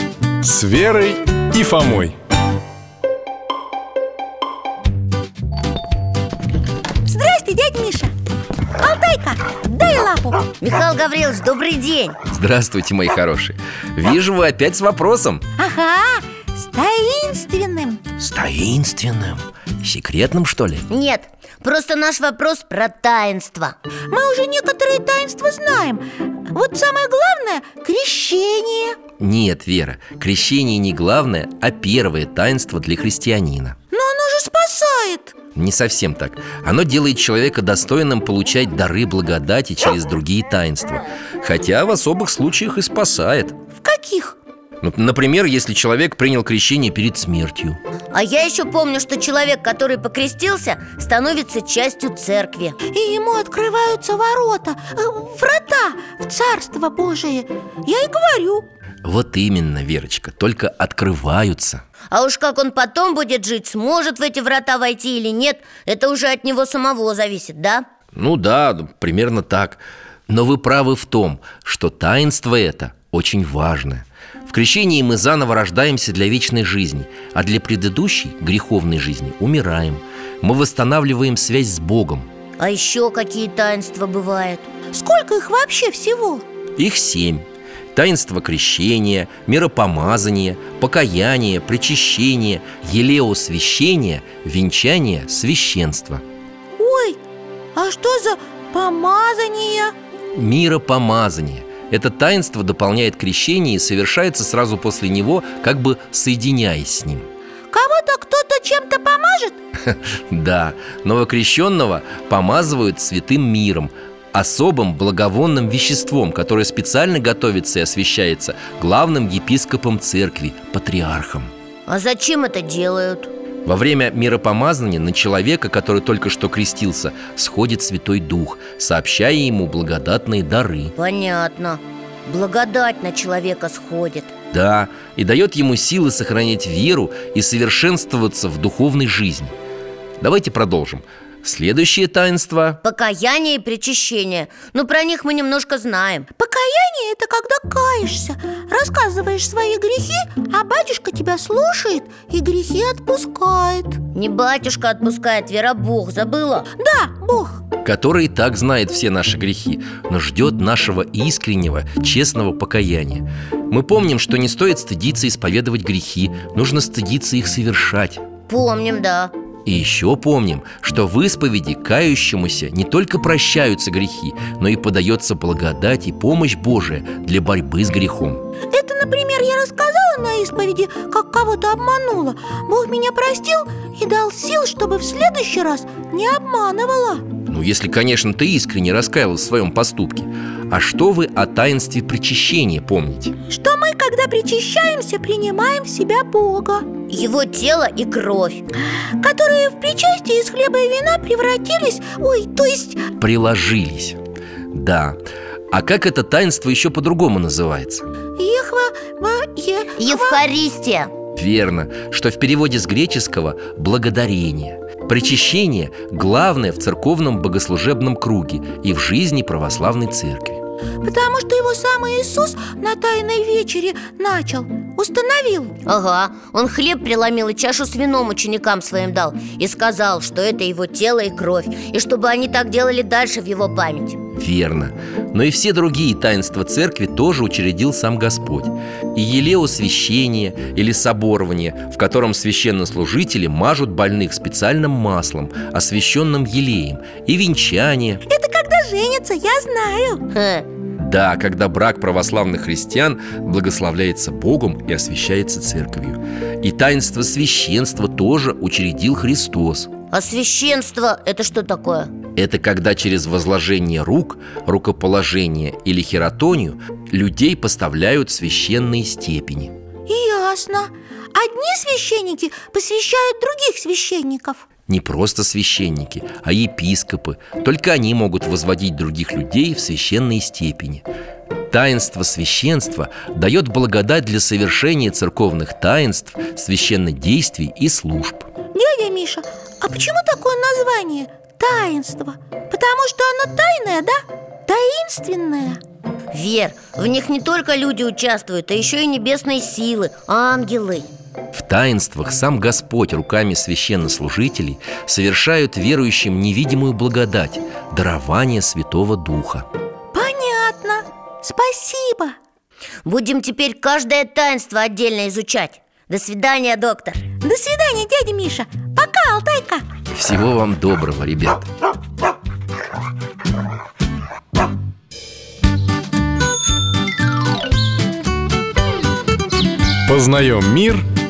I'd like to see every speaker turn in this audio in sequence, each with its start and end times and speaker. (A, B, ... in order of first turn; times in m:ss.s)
0:00.4-0:02.2 A
0:07.1-0:08.1 B
0:08.8-0:10.4 B
0:10.6-0:12.2 C
0:12.3-0:15.4 D
0:15.6-0:18.0 B
0:18.2-0:20.9 D
0:20.9-0:23.8 C
0:24.1-0:29.0 B
0:29.2-0:33.8 D
0:33.9-0:35.3 B
0:35.6-0:43.6 D
0:43.8-0:44.4 B
0:44.8-0:47.8 D
0:48.1-0:52.8 C
0:52.9-0:58.6 B
0:59.0-1:01.8 D
1:02.1-1:07.9 C
1:08.2-1:22.3 D
1:22.6-1:24.7 C
1:24.9-1:26.4 B
1:26.8-1:36.2 D
1:36.8-1:37.2 B
1:37.8-1:40.0 B
1:40.3-1:47.3 D
1:47.7-1:49.6 B
1:49.8-2:01.5 D
2:01.9-2:03.3 C
2:03.7-2:11.0 D
2:11.0-2:14.3 C
2:14.5-2:19.6 D
2:20.2-2:22.8 D
2:22.8-2:26.3 C
2:26.4-2:34.0 B
2:34.1-2:36.7 C
2:36.8-2:37.6 B
2:37.8-2:48.2 D
2:48.5-2:49.3 C
2:49.7-2:58.4 D
2:58.7-3:07.2 B
3:07.5-3:13.4 D
3:13.5-3:16.9 B
3:17.1-3:18.6 C
3:19.2-3:23.1 B
3:23.2-3:24.2 D
3:24.7-3:25.2 D
3:25.7-3:28.1 D
3:28.4-3:30.4 B
3:30.0-3:31.1 C
3:31.4-3:40.6 D
3:41.0-3:45.8 B
3:45.9-3:54.2 C
3:54.3-4:08.2 D
4:08.3-4:10.2 B
4:10.3-4:10.7 C
4:11.0-4:19.9 D
4:20.1-4:22.1 C
4:22.4-4:29.7 D
4:30.1-4:34.6 B
4:34.9-4:41.0 D
4:41.7-4:48.5 D
4:48.7-4:55.8 B
4:56.3-5:01.1 C
5:01.5-5:09.7 D
5:10.1-5:12.4 B
5:13.0-5:17.2 C
5:17.4-5:19.9 B
5:20.1-5:21.7 D
5:30.0-5:31.0 A